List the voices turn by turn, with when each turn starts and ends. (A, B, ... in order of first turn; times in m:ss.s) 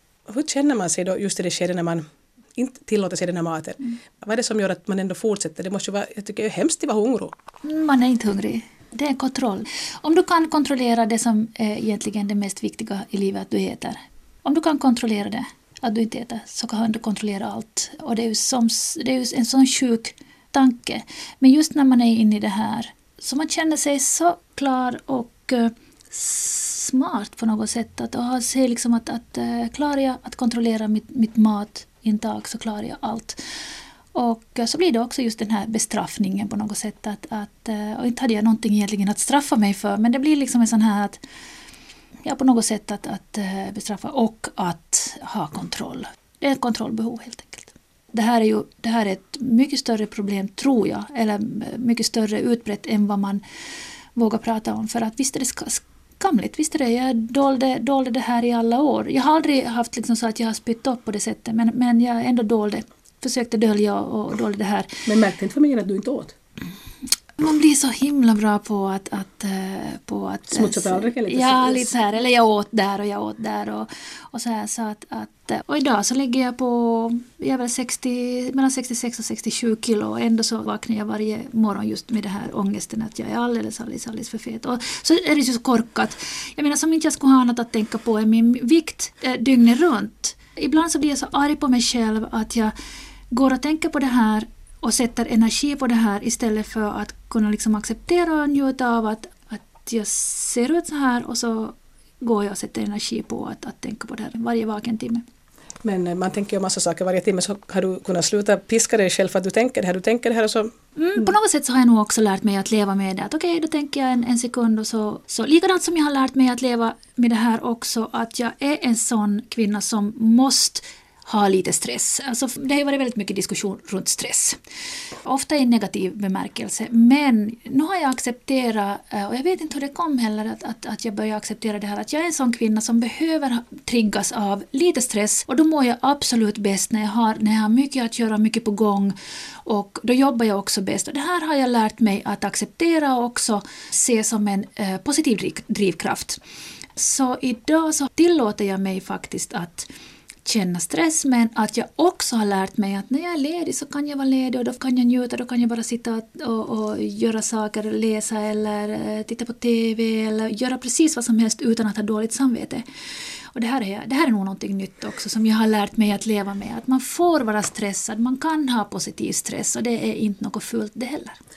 0:00.3-0:07.3 A
0:07.6-0:33.4 B
0:34.1-0:41.2 B
0:42.2-0:53.4 B
0:54.1-1:05.0 B
1:05.0-1:06.3 A
1:07.4-1:32.7 B
1:10.5-1:11.9 A
1:33.3-1:45.2 B
1:45.8-1:50.7 A
1:51.0-2:04.6 B
2:05.2-2:26.4 B
2:27.0-2:29.9 B
2:30.4-2:42.8 B
2:43.5-2:51.4 B